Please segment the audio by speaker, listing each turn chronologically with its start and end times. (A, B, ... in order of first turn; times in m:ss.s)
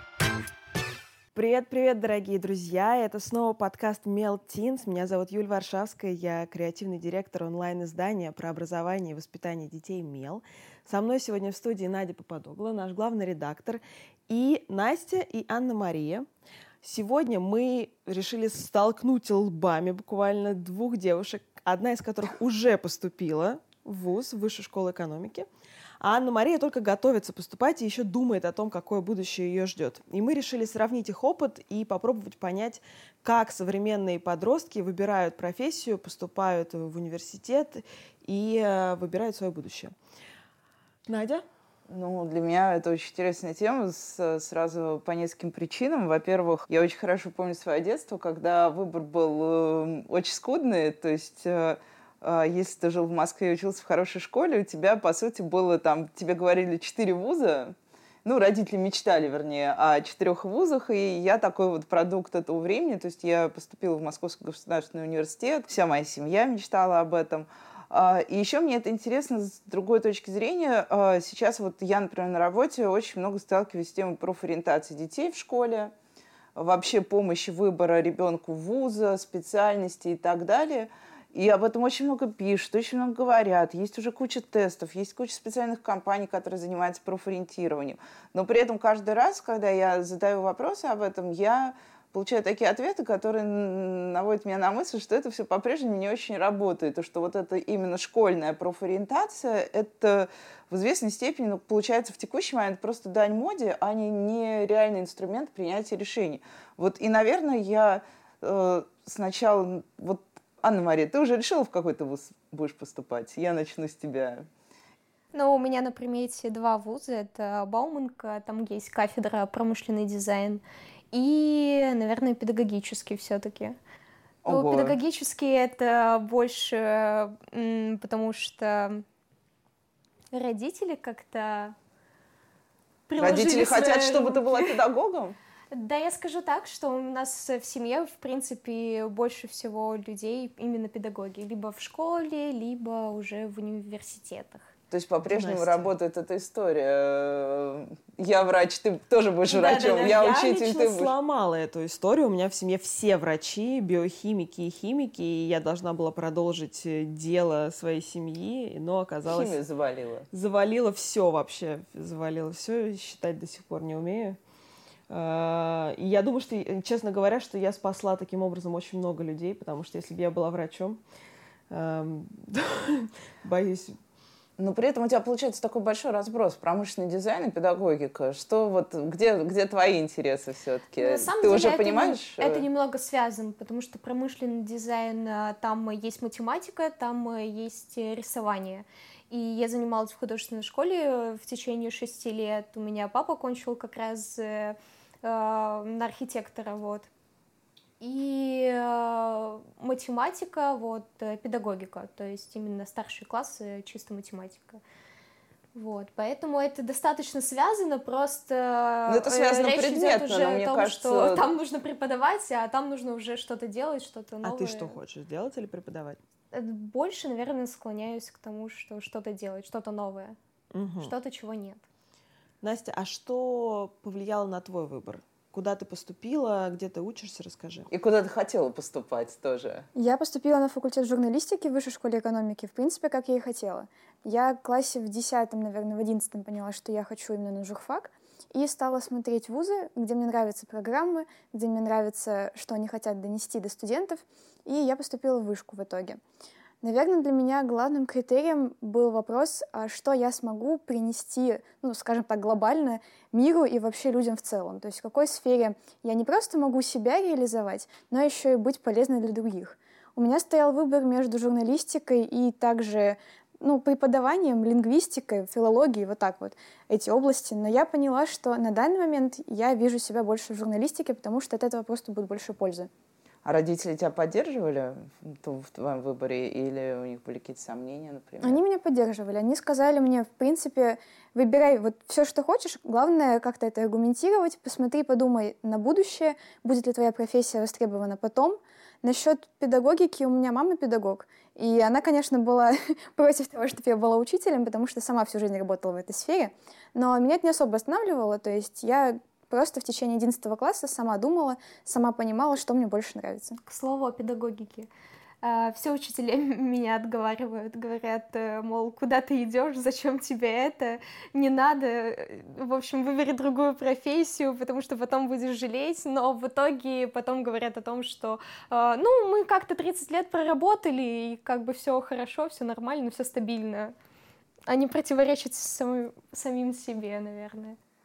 0:01.3-0:16.2 A
0:16.8-0:25.5 A
0:26.0-0:39.9 A
0:41.1-0:41.4 A
0:41.9-1:15.9 B
1:16.6-1:54.4 B
1:55.3-2:03.8 C
2:04.4-2:05.0 B
2:04.5-2:09.0 C
2:10.3-2:11.7 C
2:13.1-2:14.8 C
2:13.2-2:15.4 B
2:15.7-2:24.7 C
2:24.9-2:31.1 B
2:25.3-2:25.9 A
2:29.5-2:39.6 A
2:39.3-2:40.3 B
2:40.3-2:44.4 A
2:45.1-2:51.0 A
2:51.7-2:54.0 A
2:54.6-3:02.6 B
3:01.0-3:17.1 C
3:18.0-3:24.8 C
3:25.7-3:35.0 C
3:29.1-3:31.5 B
3:34.4-3:36.2 A
3:36.5-3:40.4 C
3:40.7-3:41.1 A
3:41.0-3:41.8 C
3:42.6-3:47.9 A
3:47.9-3:49.8 B
3:49.9-4:06.2 D
4:06.8-4:32.9 D
4:33.4-4:38.6 B
4:38.4-5:03.6 D
5:03.6-5:04.9 C
5:05.4-5:23.9 C
5:24.7-5:27.8 C